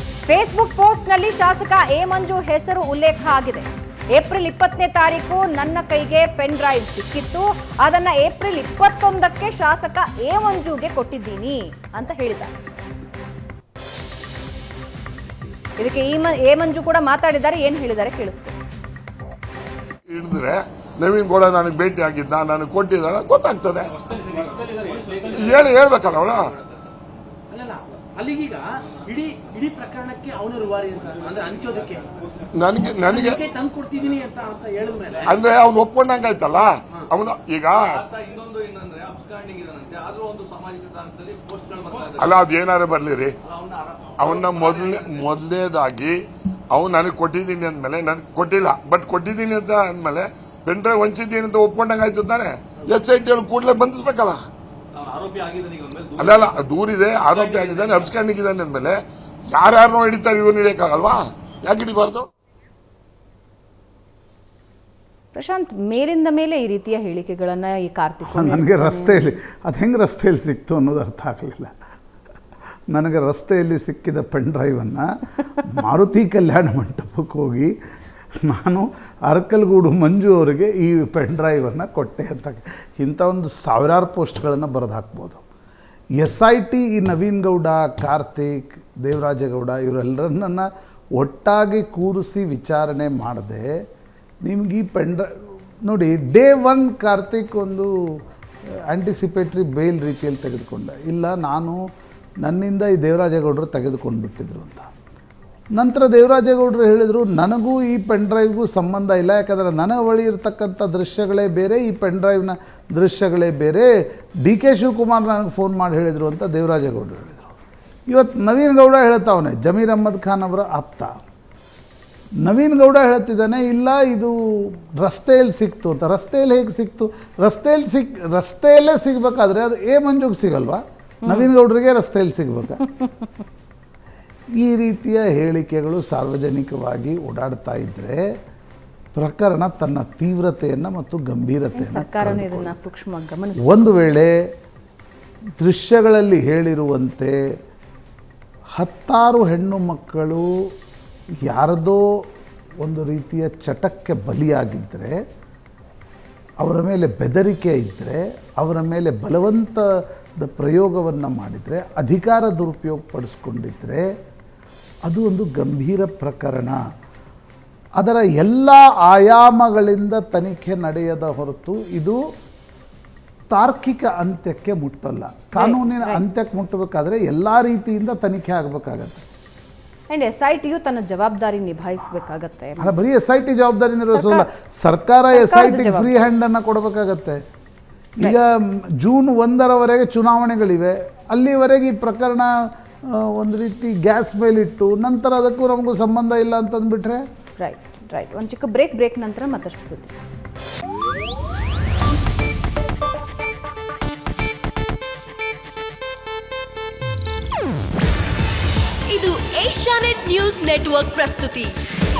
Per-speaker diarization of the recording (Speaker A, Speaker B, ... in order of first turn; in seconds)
Speaker A: 0.3-12.5, 15.8-18.6, 65.3-69.3, 141.7-143.9, 175.5-176.2, 180.1-182.9, 184.1-184.5, 185.3-186.3, 197.6-200.1
Speaker B: 20.1-23.9, 25.3-26.5, 32.5-33.4, 35.2-38.0, 42.1-43.3, 44.2-46.1, 46.7-54.4, 56.2-59.0, 59.5-62.2
Speaker C: 23.9-25.7, 30.8-32.5, 34.0-35.3, 37.9-42.4, 43.4-45.3, 54.9-56.6, 57.3-58.1
Speaker D: 27.5-32.2, 33.1-35.4
Speaker E: 68.3-71.7, 72.9-77.7, 78.4-85.5, 86.2-93.7, 94.4-95.3, 95.8-97.9, 98.9-101.8, 102.4-104.9, 105.8-113.9, 114.4-117.5, 118.1-121.1, 122.4-132.8, 134.6-138.2, 139.1-142.8, 143.6-144.3, 145.6-147.4, 148.8-150.6, 151.4-152.1, 152.8-155.2, 156.6-164.1, 165.1-166.8, 168.0-172.2, 173.5-179.2, 182.8-187.4, 188.2-197.2
Speaker F: 209.1-211.8